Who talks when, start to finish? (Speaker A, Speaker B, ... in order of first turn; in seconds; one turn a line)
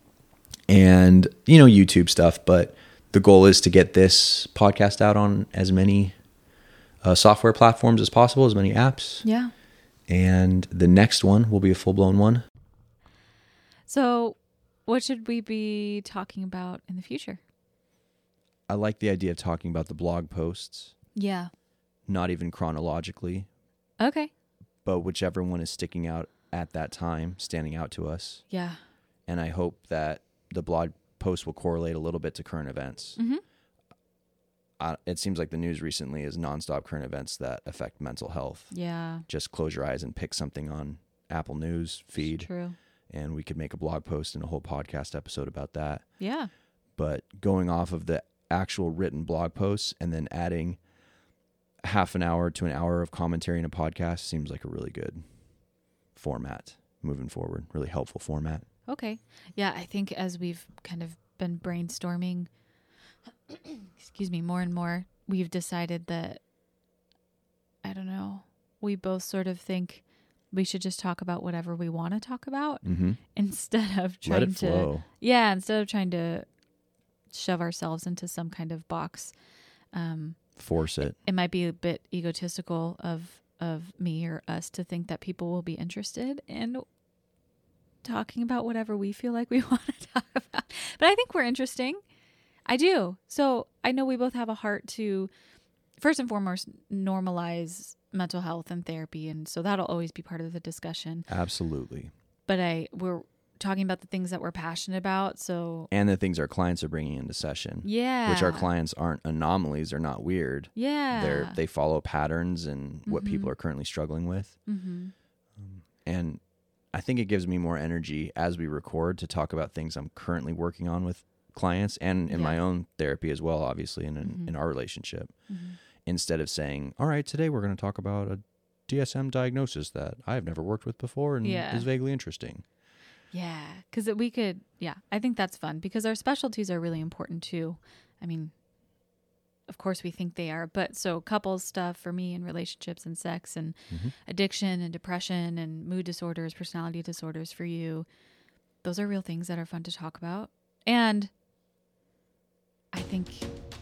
Speaker A: 0.7-6.1
Speaker A: 7.0-9.2
Speaker B: 9.2-9.5
Speaker A: 10.1-12.4
Speaker B: 13.9-17.4
Speaker A: 18.7-20.9
Speaker B: 21.1-21.5
Speaker A: 22.1-23.5
Speaker B: 24.0-24.3
Speaker A: 24.9-28.4
Speaker B: 28.5-28.8
Speaker A: 29.3-33.2
Speaker B: 33.2-33.4
Speaker A: 34.8-38.7
Speaker B: 38.7-39.3
Speaker A: 39.3-42.5
Speaker B: 42.2-42.8
Speaker A: 43.1-46.0
Speaker B: 46.2-46.5
Speaker A: 47.0-50.8
Speaker A: 51.8-55.2
Speaker A: 56.2-58.7
Speaker B: 58.9-62.5
Speaker B: 63.5-66.4
Speaker B: 67.8-72.8
Speaker A: 72.8-73.2
Speaker B: 73.3-76.5
Speaker A: 74.3-75.1
Speaker B: 77.3-79.3
Speaker B: 79.9-80.4
Speaker A: 80.6-81.2
Speaker B: 81.2-86.8
Speaker B: 88.0-92.0
Speaker B: 92.7-95.3
Speaker B: 96.0-101.3
Speaker A: 101.3-102.1
Speaker B: 102.5-105.9
Speaker A: 105.9-114.5
Speaker B: 107.8-108.7
Speaker B: 110.8-111.6
Speaker B: 113.1-113.5
Speaker B: 114.7-115.1
Speaker A: 115.6-116.4
Speaker A: 116.9-125.3
Speaker B: 122.3-122.6
Speaker B: 124.2-124.5
Speaker B: 125.5-125.8
Speaker A: 126.0-132.6
Speaker B: 131.4-131.9
Speaker B: 133.3-138.5
Speaker B: 139.7-148.1
Speaker B: 148.8-151.3
Speaker B: 152.9-153.5